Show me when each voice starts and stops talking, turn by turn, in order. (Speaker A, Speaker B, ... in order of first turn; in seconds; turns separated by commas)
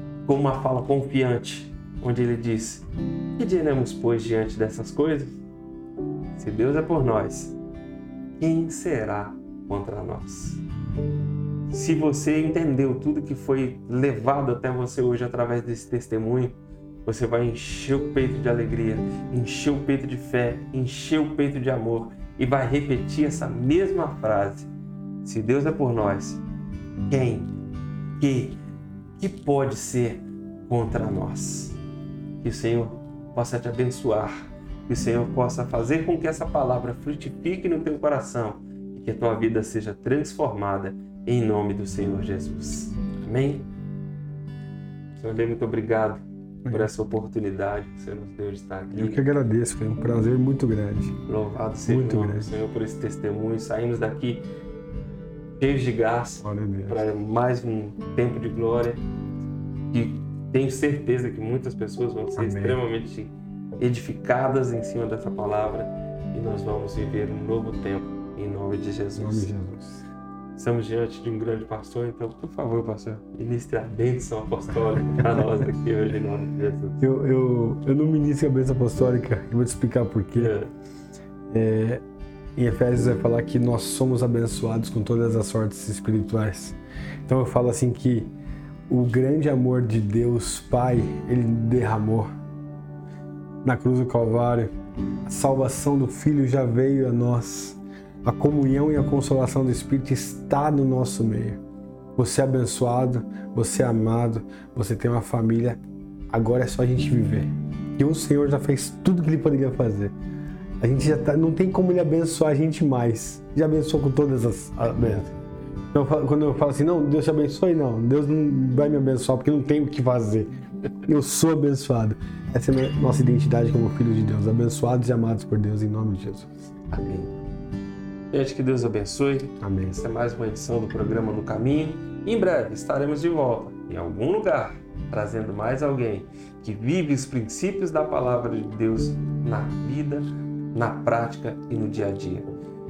Speaker A: 0.3-5.4, Speaker A: 6.3-7.5, Speaker A: 8.4-10.6, Speaker A: 11.7-24.7, Speaker A: 25.2-26.4, Speaker A: 27.1-27.5, Speaker A: 28.2-28.6, Speaker A: 29.2-31.8, Speaker A: 32.4-43.7, Speaker A: 45.2-49.3, Speaker B: 46.6-46.9, Speaker B: 48.9-51.2, Speaker A: 51.3-54.5, Speaker B: 51.8-52.5, Speaker A: 55.6-59.0, Speaker B: 56.4-57.0, Speaker A: 59.9-69.5, Speaker B: 62.4-62.8, Speaker B: 69.2-70.0, Speaker A: 70.6-77.0, Speaker B: 77.0-80.6, Speaker A: 80.3-80.7, Speaker B: 81.5-82.0, Speaker B: 82.6-88.3, Speaker B: 88.9-92.3, Speaker B: 93.6-101.6, Speaker B: 102.2-110.2, Speaker B: 110.8-115.4, Speaker B: 115.9-120.5, Speaker B: 121.0-126.5, Speaker A: 126.9-127.3, Speaker A: 128.3-142.5, Speaker B: 129.6-130.0